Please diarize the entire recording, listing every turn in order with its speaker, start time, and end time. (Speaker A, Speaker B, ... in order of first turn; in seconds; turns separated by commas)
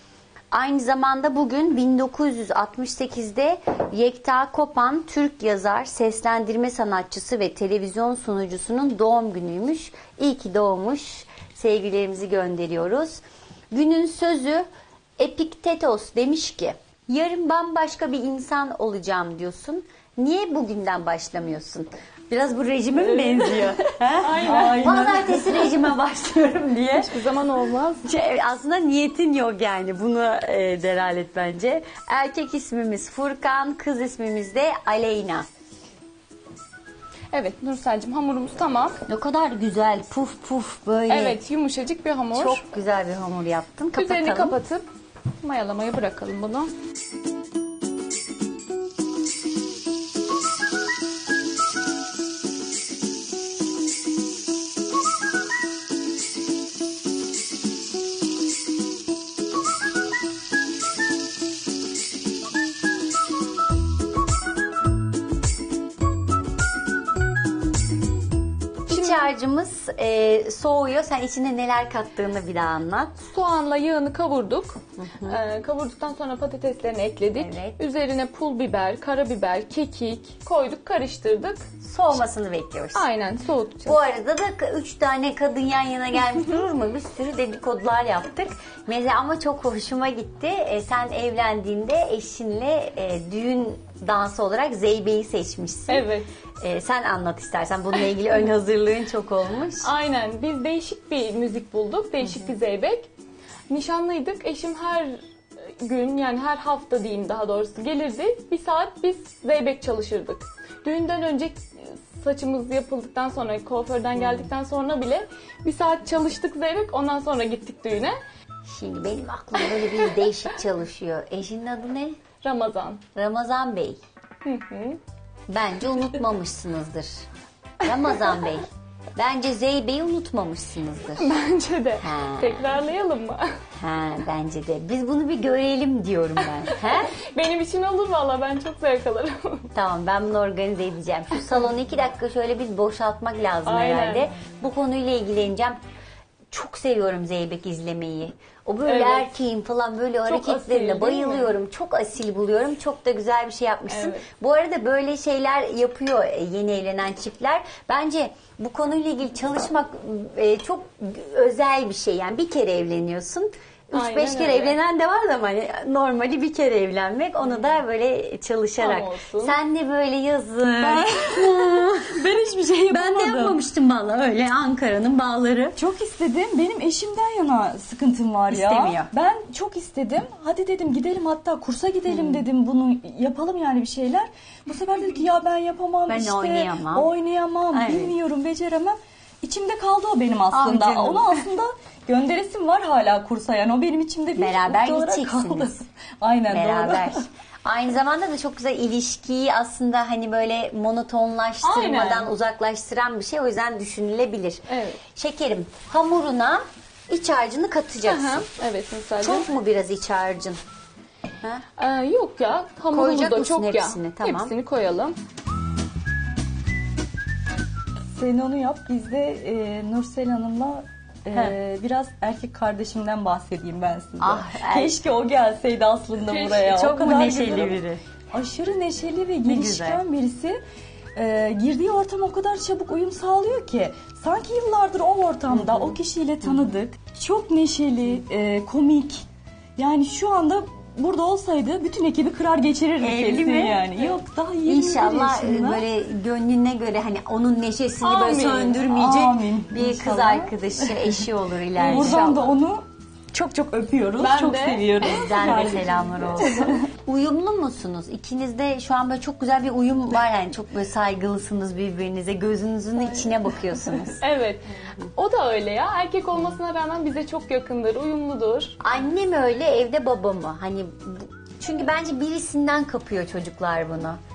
Speaker A: 0.5-14.7, Speaker A: 15.2-27.1, Speaker B: 23.1-25.9, Speaker C: 24.2-25.1, Speaker C: 26.9-28.1, Speaker A: 28.0-35.5, Speaker C: 37.3-39.0, Speaker A: 39.1-41.4, Speaker C: 41.1-42.6, Speaker A: 42.3-44.6, Speaker C: 43.9-44.8, Speaker C: 45.4-46.7, Speaker A: 68.9-73.2, Speaker C: 68.9-69.3, Speaker C: 73.3-81.6, Speaker A: 75.0-75.4, Speaker A: 77.3-77.8, Speaker A: 81.8-83.1, Speaker C: 82.9-84.0, Speaker A: 83.8-96.1, Speaker C: 95.9-96.3, Speaker A: 96.6-99.9, Speaker C: 99.8-103.1, Speaker C: 103.7-118.2, Speaker A: 118.7-122.1, Speaker C: 122.4-123.0, Speaker A: 123.1-124.0, Speaker C: 124.4-125.0, Speaker A: 125.5-127.2, Speaker A: 127.8-131.3, Speaker C: 131.2-133.5, Speaker A: 132.0-132.8, Speaker A: 133.8-137.2, Speaker C: 136.5-139.7, Speaker A: 139.7-145.8, Speaker C: 143.7-144.3, Speaker A: 146.5-172.2, Speaker C: 148.8-149.3, Speaker C: 150.2-151.6, Speaker C: 153.9-154.2, Speaker C: 163.9-164.8, Speaker C: 168.8-169.6, Speaker B: 170.8-173.6, Speaker A: 172.9-175.8, Speaker B: 175.8-197.2, Speaker A: 178.5-179.1, Speaker A: 182.1-182.4, Speaker A: 186.1-187.1, Speaker A: 187.7-188.1, Speaker A: 190.5-191.4, Speaker A: 194.4-195.8, Speaker A: 196.5-208.4, Speaker C: 201.6-202.3, Speaker C: 204.7-205.0, Speaker C: 208.0-209.5, Speaker A: 209.2-210.6, Speaker C: 211.8-215.2, Speaker A: 212.9-214.5, Speaker B: 218.1-227.8, Speaker A: 224.2-225.0, Speaker C: 226.3-226.6, Speaker A: 226.5-228.0, Speaker B: 228.3-230.6, Speaker A: 229.4-230.0, Speaker B: 231.1-239.2, Speaker A: 235.5-236.7, Speaker B: 239.8-245.8, Speaker A: 243.0-243.9, Speaker A: 244.6-252.5, Speaker C: 248.0-248.8, Speaker B: 248.8-251.2, Speaker B: 251.8-256.9, Speaker C: 251.9-252.3, Speaker C: 254.2-255.6, Speaker A: 255.0-264.2, Speaker C: 264.2-268.8, Speaker A: 268.8-274.2